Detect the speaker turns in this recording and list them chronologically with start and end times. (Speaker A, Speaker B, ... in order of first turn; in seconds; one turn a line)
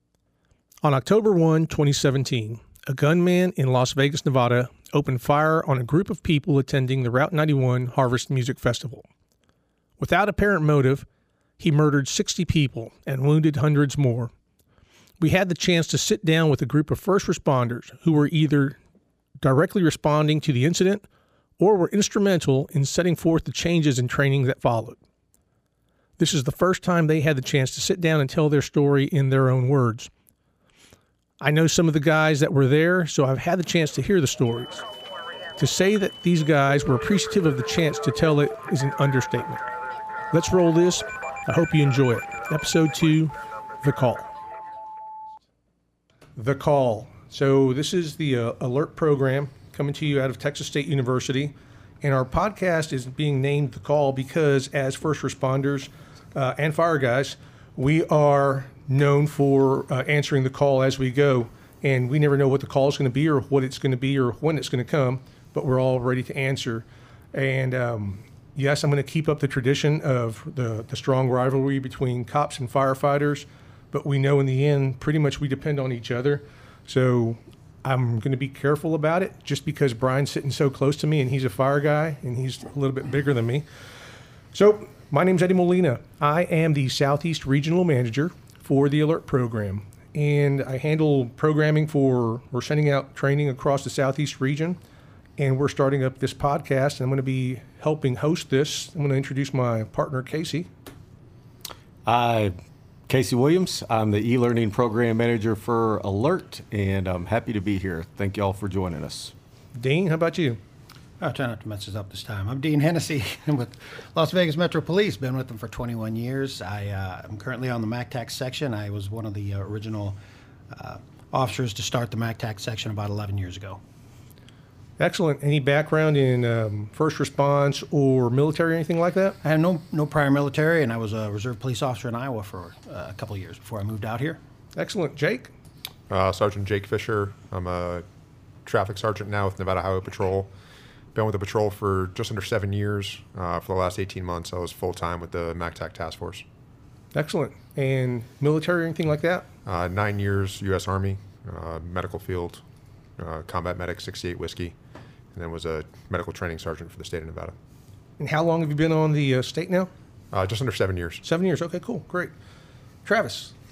Speaker A: 0.8-9.1
Speaker A: 10.0-11.1
Speaker A: 11.6-14.3
Speaker A: 15.2-18.8
Speaker A: 19.4-21.1
Speaker A: 21.6-25.0
Speaker A: 26.2-30.1
Speaker A: 31.4-34.8
Speaker A: 35.6-39.6
Speaker A: 40.3-44.3
Speaker A: 46.4-83.7
Speaker A: 84.5-94.8
Speaker A: 95.4-100.7
Speaker B: 102.1-102.5
Speaker B: 103.1-109.3
Speaker A: 109.8-110.6
Speaker C: 111.2-120.2
Speaker C: 120.7-123.8
Speaker A: 125.0-129.4
Speaker C: 129.4-134.4
Speaker A: 134.8-135.5
Speaker D: 136.1-138.1
Speaker D: 138.7-140.5
Speaker D: 141.2-146.5
Speaker A: 147.1-149.5
Speaker D: 149.7-152.6
Speaker D: 153.2-154.8
Speaker D: 155.3-157.6
Speaker A: 158.2-159.9
Speaker D: 160.3-161.2
Speaker A: 161.2-162.3
Speaker A: 163.1-163.5